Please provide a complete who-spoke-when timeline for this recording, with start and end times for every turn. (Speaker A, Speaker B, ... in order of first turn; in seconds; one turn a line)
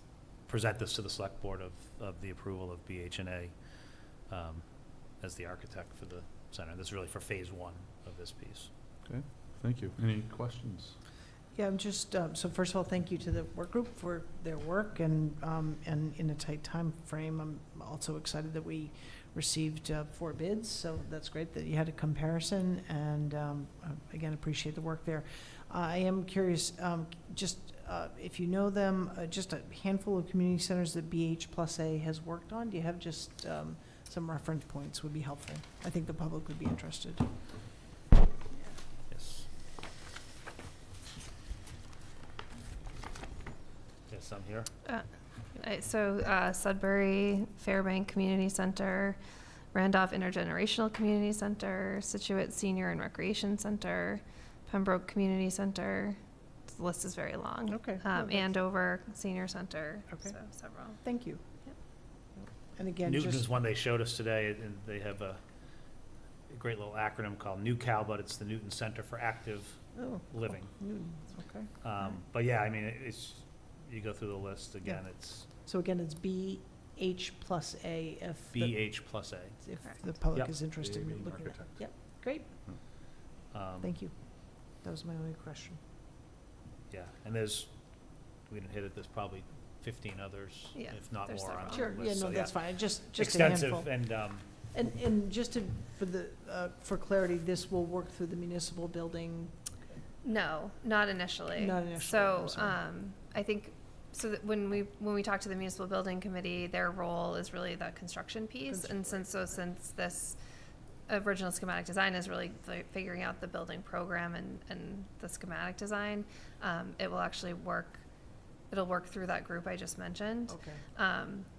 Speaker A: 0.5-3.5
Speaker A: 4.3-8.7
Speaker B: 9.1-10.9
Speaker C: 11.5-37.2
Speaker A: 39.1-39.5
Speaker A: 44.1-44.7
Speaker D: 44.9-49.2
Speaker D: 49.7-61.0
Speaker C: 57.7-58.5
Speaker C: 61.0-61.4
Speaker C: 62.3-63.5
Speaker A: 63.0-65.4
Speaker A: 66.5-70.7
Speaker C: 69.9-71.7
Speaker A: 71.8-75.5
Speaker C: 74.8-82.5
Speaker A: 78.5-79.6
Speaker B: 80.8-81.9
Speaker A: 83.5-83.9
Speaker C: 83.8-85.8
Speaker A: 86.9-87.7
Speaker A: 88.5-94.5
Speaker D: 90.7-91.9
Speaker C: 91.7-93.9
Speaker C: 94.7-99.7
Speaker D: 100.2-110.4
Speaker C: 101.5-102.8
Speaker C: 108.7-109.3
Speaker D: 111.1-118.0
Speaker D: 118.7-121.5
Speaker C: 120.5-120.8